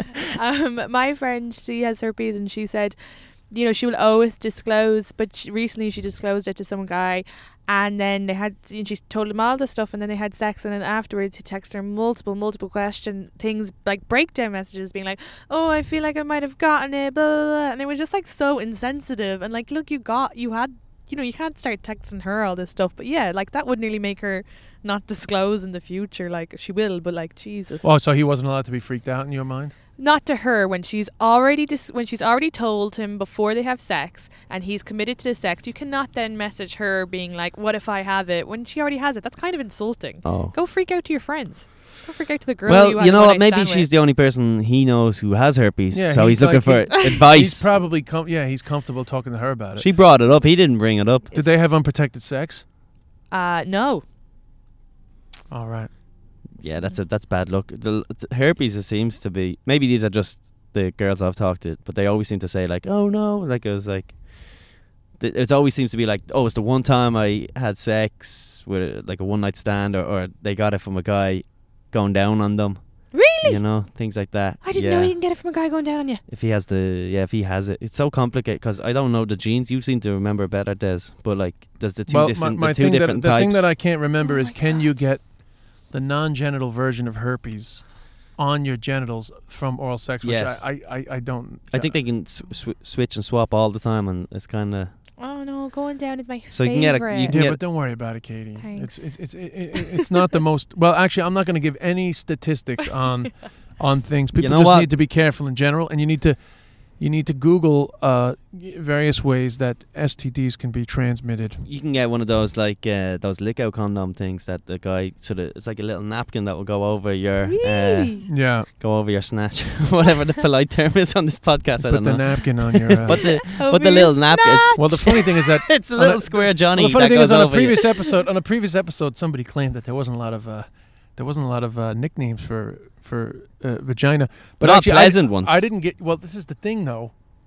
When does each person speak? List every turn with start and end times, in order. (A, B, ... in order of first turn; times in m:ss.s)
0:00.3-0:27.9 A
0:27.8-0:29.7 B
0:30.0-0:43.9 A
0:40.2-0:40.6 C
0:42.6-0:47.7 C
0:45.9-0:49.9 B
0:49.8-0:51.3 C
0:51.3-0:52.6 B
0:53.3-0:54.0 A
0:55.5-0:55.9 B
0:56.5-1:15.2 C
1:13.1-1:13.9 A
1:14.6-1:16.2 A
1:16.2-1:23.9 C
1:22.1-1:32.0 B
1:24.2-1:24.7 A
1:30.2-1:30.8 C
1:31.7-1:34.9 C
1:35.2-1:37.4 A
1:36.5-1:37.6 C
1:37.2-1:51.6 B
1:38.6-1:39.8 A
1:44.4-1:44.9 C
1:51.6-2:07.8 C
1:57.5-1:58.2 A
1:58.3-1:58.7 B
2:01.8-2:03.4 B
2:03.1-2:05.3 A
2:04.8-2:17.2 B
2:14.6-2:15.6 C